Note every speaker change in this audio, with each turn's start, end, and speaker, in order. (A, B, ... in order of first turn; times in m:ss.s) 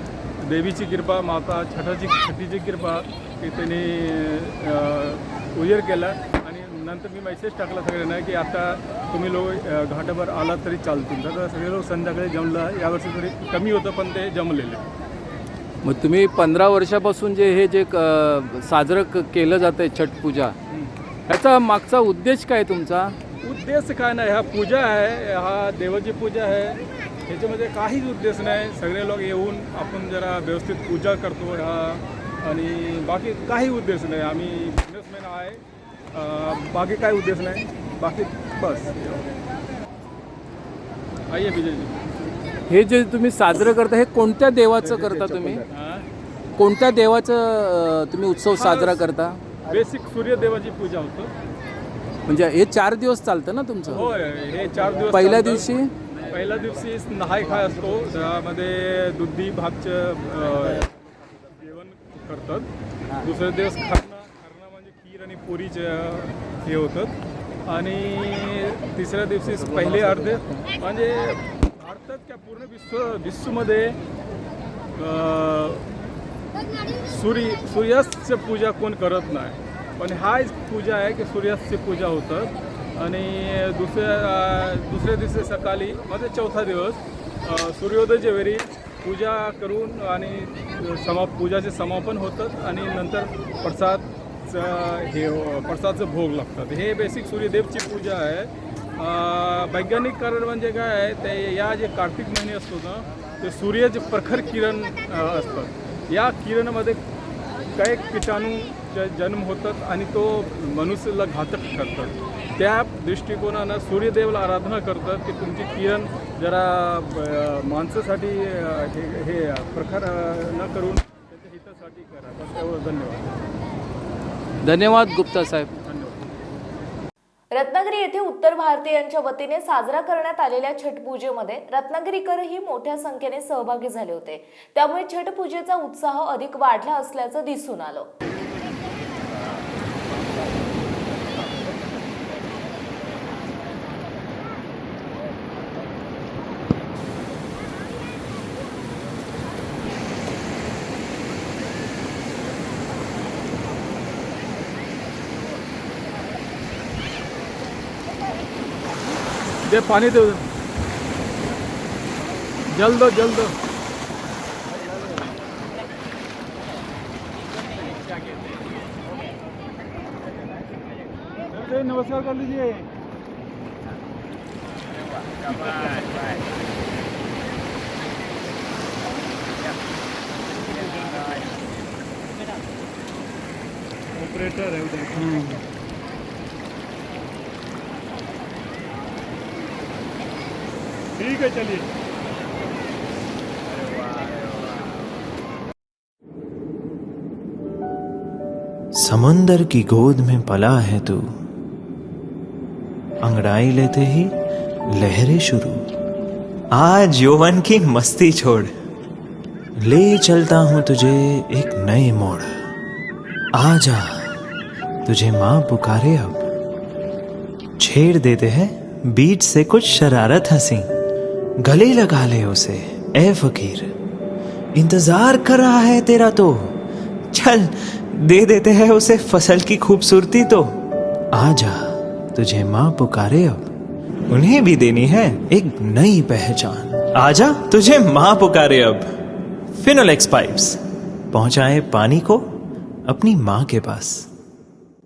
0:00.4-0:14.8 A
0:15.8-0:20.6 B
0:21.3-0:23.1 B
0:23.4-0:35.6 A
0:36.1-0:39.4 A
0:41.3-0:42.0 A
0:42.7-0:45.6 B
0:44.8-0:46.0 A
0:46.6-0:49.5 B
0:48.5-0:49.0 A
0:49.6-0:51.3 A
0:52.2-0:54.1 B
0:53.9-1:02.7 A
0:55.1-0:55.9 B
1:03.2-1:07.1 A
1:07.6-1:14.0 A
1:09.6-1:10.6 B
1:14.9-1:15.9 A
1:17.0-1:47.0 A
1:47.8-2:03.4 A
2:04.6-2:05.7 B
2:05.8-2:06.2 A
2:07.5-2:18.1 C
2:39.6-2:40.4 A
2:42.7-2:43.5 A
2:51.5-2:52.9 A
3:00.7-3:01.4 A
3:04.2-3:05.6 A
3:11.2-3:11.9 A
3:19.0-3:21.2 D
3:23.2-3:24.3 D
3:24.9-3:25.8 D
3:26.8-3:28.7 D
3:29.8-3:32.5 D
3:33.5-3:34.3 D
3:35.0-3:36.4 D
3:37.8-3:40.9 D
3:41.6-3:43.9 D
3:44.8-3:46.7 D
3:47.3-3:50.7 D
3:51.3-3:53.7 D
3:54.3-3:59.0 D
3:59.8-4:00.8 D
4:01.3-4:02.4 D
4:03.1-4:04.3 D